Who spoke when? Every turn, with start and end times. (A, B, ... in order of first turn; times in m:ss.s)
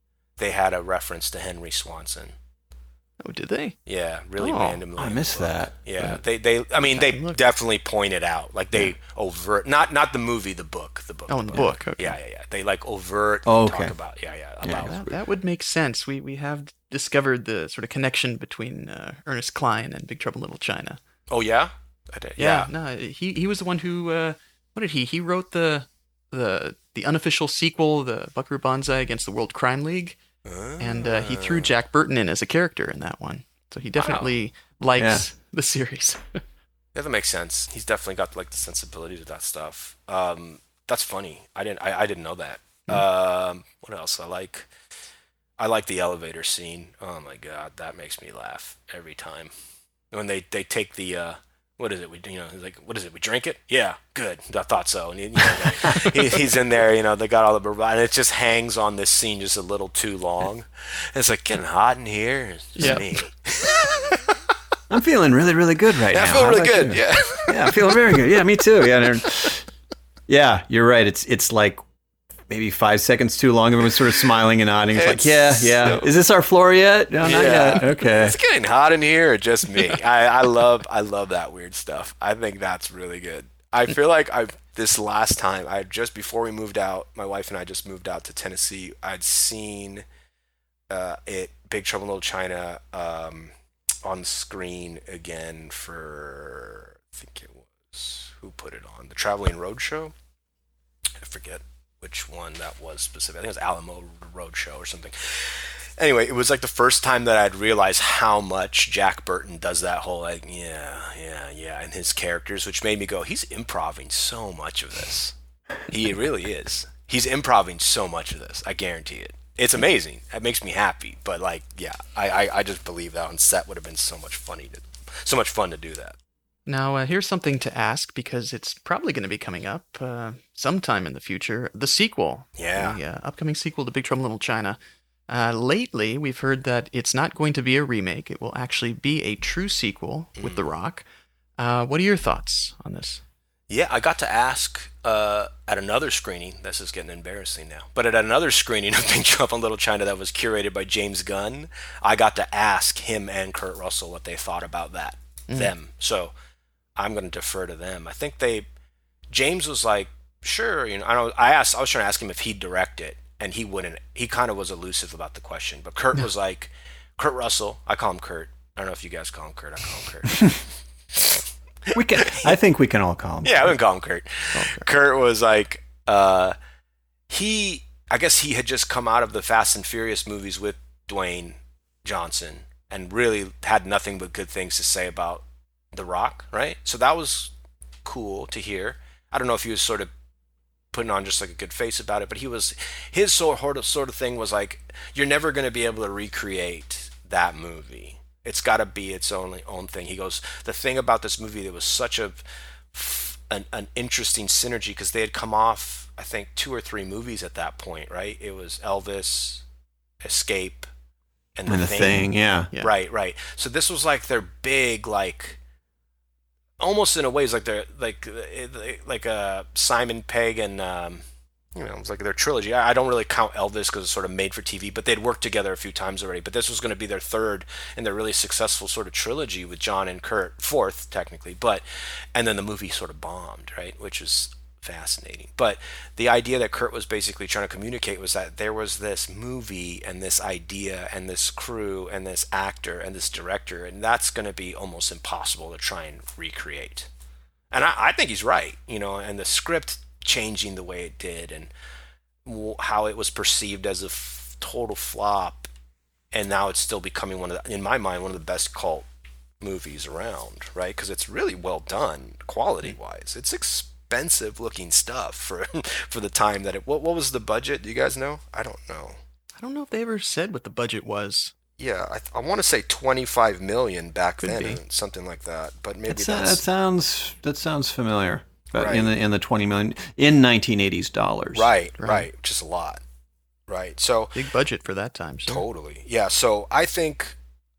0:00.4-0:02.4 A
0:03.2-0:03.8 B
0:03.9-0:15.2 A
0:04.4-0:04.8 B
0:05.0-0:06.2 C
0:07.0-0:07.4 B
0:11.3-0:12.2 B
0:13.5-0:14.0 C
0:14.8-0:21.0 B
0:21.3-0:22.7 A
0:22.4-0:30.2 B
0:30.5-0:31.7 A
0:30.8-0:36.4 B
0:34.0-0:34.3 A
0:35.0-0:35.2 C
0:37.0-0:44.7 A
0:45.6-0:49.5 A
0:50.1-1:04.3 A
1:02.8-1:03.1 B
1:04.9-1:09.7 C
1:06.1-1:08.2 A
1:10.3-1:11.8 C
1:12.5-1:18.4 C
1:15.0-1:16.1 A
1:17.2-1:30.0 A
1:30.9-1:33.5 A
1:34.0-1:40.1 A
1:41.2-1:55.4 A
1:55.9-2:06.2 A
2:06.7-2:21.0 B
2:12.6-2:13.0 A
2:21.6-2:23.2 B
2:23.7-2:36.3 A
2:37.0-2:38.7 A
2:39.3-2:52.6 A
2:51.9-2:53.8 C
2:53.4-2:56.6 A
2:54.5-2:54.9 B
2:57.3-3:07.5 A
3:08.0-3:10.1 A
3:10.9-3:22.4 A
3:22.9-3:29.6 A
3:30.2-3:30.9 A
3:31.6-3:35.6 A
3:31.7-3:32.7 C
3:36.8-3:41.2 A
3:41.8-3:51.8 A
3:52.4-4:07.1 A
4:07.7-4:11.7 A
4:12.4-4:15.7 A
4:16.3-4:19.1 A
4:19.6-4:29.2 A
4:29.6-4:31.5 B
4:31.8-4:36.6 A
4:34.4-4:34.8 B
4:36.1-4:41.7 C
4:38.7-4:39.1 A
4:41.5-4:43.0 A
4:42.0-4:42.3 B
4:43.7-4:44.4 A
4:44.4-4:45.6 B
4:45.5-4:47.4 A